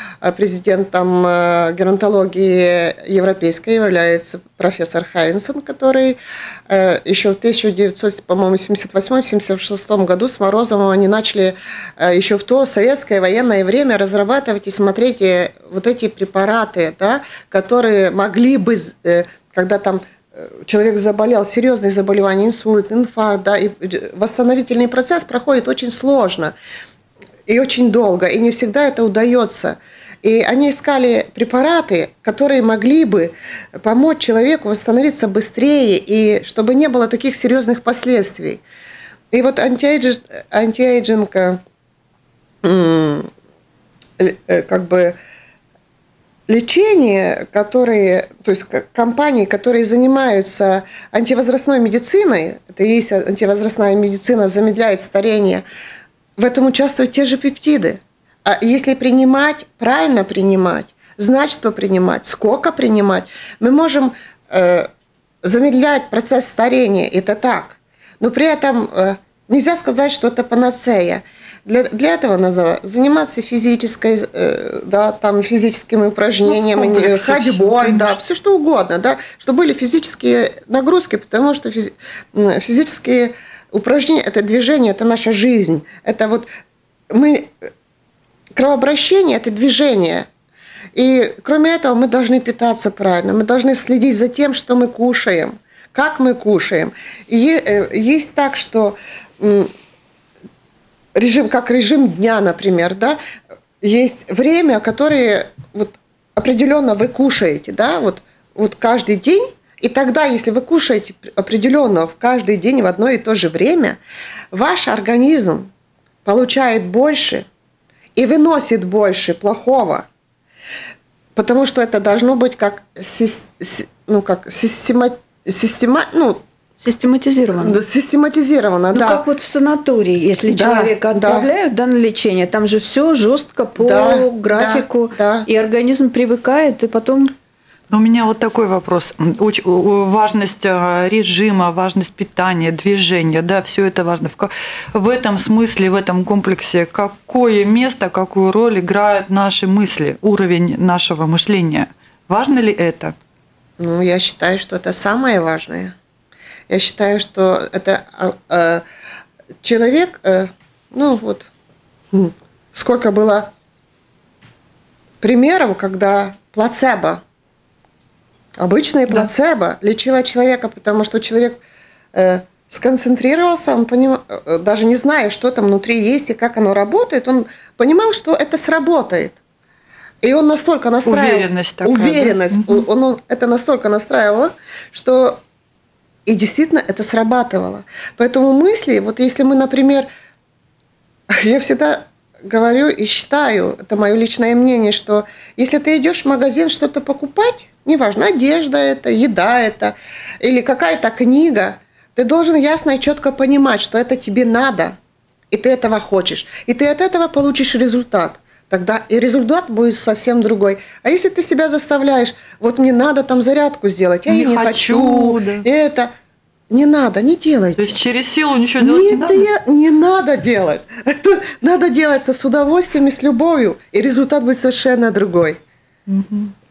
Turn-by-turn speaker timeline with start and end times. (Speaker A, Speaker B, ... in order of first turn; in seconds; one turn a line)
Speaker A: 0.2-6.2
Speaker A: 6.7-26.5
Speaker A: 27.5-38.6
Speaker A: 39.3-41.6
Speaker A: 42.6-43.3
Speaker A: 44.2-45.1
Speaker A: 46.5-55.6
Speaker A: 56.4-64.9
Speaker A: 65.4-86.5
Speaker B: 76.4-78.1
Speaker A: 87.1-87.5
Speaker A: 88.5-90.3
Speaker A: 90.9-99.7
Speaker A: 101.2-103.2
Speaker A: 103.8-114.0
Speaker A: 114.5-115.7
Speaker A: 116.2-117.5
Speaker A: 118.1-120.1
Speaker A: 121.3-126.4
Speaker C: 126.8-127.8
Speaker A: 127.5-129.2
Speaker C: 128.9-137.3
Speaker A: 130.5-131.5
Speaker A: 133.8-135.5
Speaker B: 137.9-153.1
Speaker A: 153.8-155.9
Speaker A: 156.7-158.8
Speaker A: 159.6-161.5
Speaker A: 162.1-163.5
Speaker A: 165.2-167.2
Speaker A: 168.6-171.6
Speaker A: 172.1-179.4
Speaker A: 180.2-185.4
Speaker B: 181.0-182.8
Speaker A: 186.2-190.1
Speaker A: 191.3-205.0
Speaker A: 205.5-216.1
Speaker B: 214.3-215.6
Speaker A: 216.7-218.0
Speaker B: 217.8-219.5
Speaker A: 218.8-225.6
Speaker B: 226.1-226.6